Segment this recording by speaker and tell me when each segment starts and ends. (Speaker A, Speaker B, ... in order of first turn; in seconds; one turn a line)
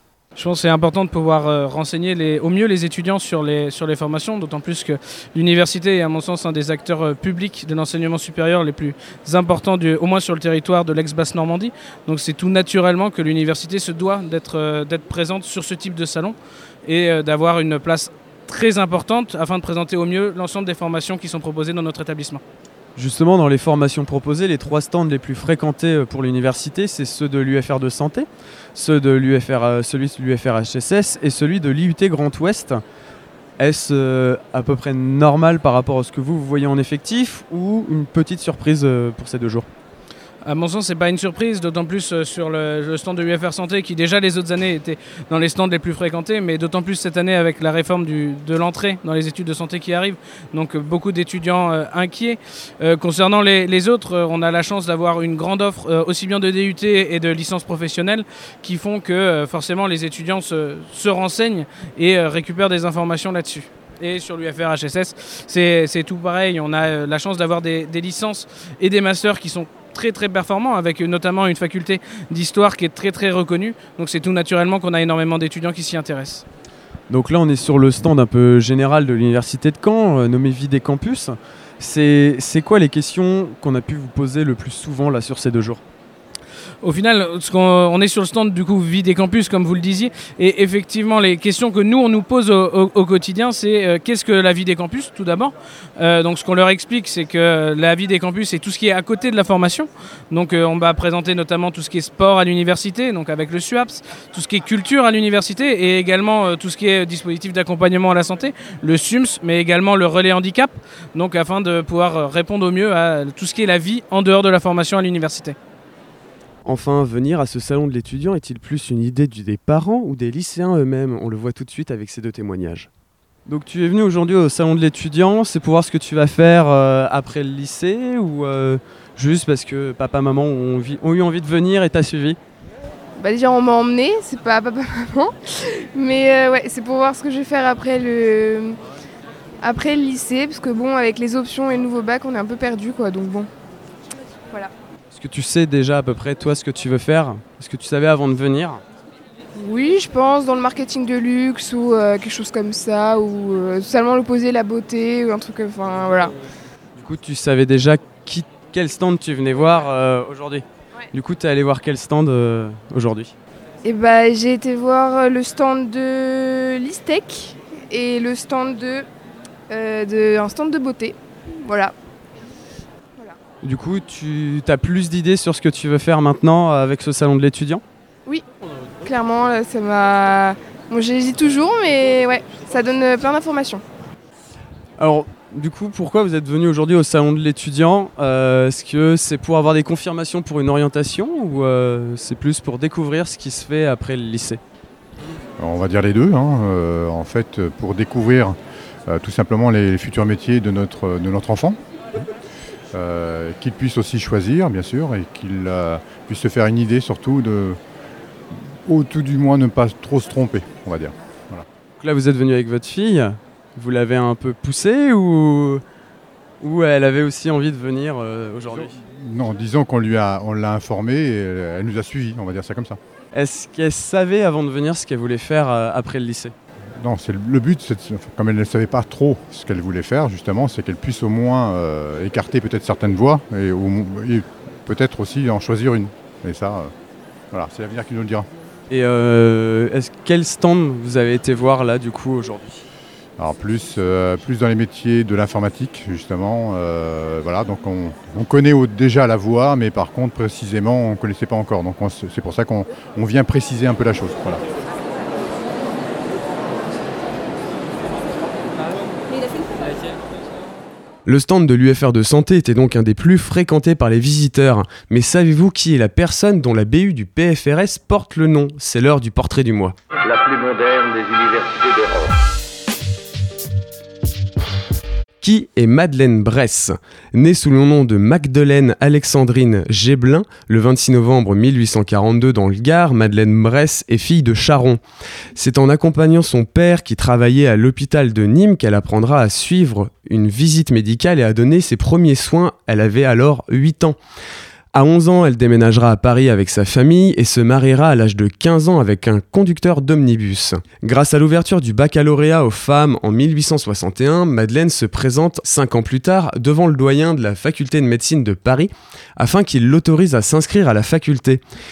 Speaker A: 0.3-22.4
Speaker B: 22.9-32.8
Speaker B: 33.6-39.7
Speaker A: 40.4-76.4
Speaker B: 77.1-85.8
Speaker A: 86.8-115.6
Speaker B: 116.6-122.9
Speaker B: 123.5-132.4
Speaker C: 133.2-138.8
Speaker C: 139.6-143.5
Speaker B: 145.1-148.8
Speaker C: 149.6-156.3
Speaker B: 156.9-163.3
Speaker C: 163.8-169.1
Speaker C: 169.7-171.9
Speaker B: 173.6-177.8
Speaker C: 179.0-183.8
Speaker B: 185.0-194.6
Speaker D: 195.6-201.8
Speaker D: 202.9-207.8
Speaker D: 208.5-211.7
Speaker B: 212.0-215.8
Speaker B: 216.6-219.0
Speaker D: 218.7-223.0
Speaker B: 223.3-226.5
Speaker D: 227.0-236.9
Speaker D: 237.5-238.5
Speaker B: 238.9-242.8
Speaker D: 243.4-254.6
Speaker B: 261.2-269.9
Speaker E: 270.2-272.3
Speaker B: 275.4-285.0
Speaker B: 285.5-294.2
Speaker B: 294.9-311.6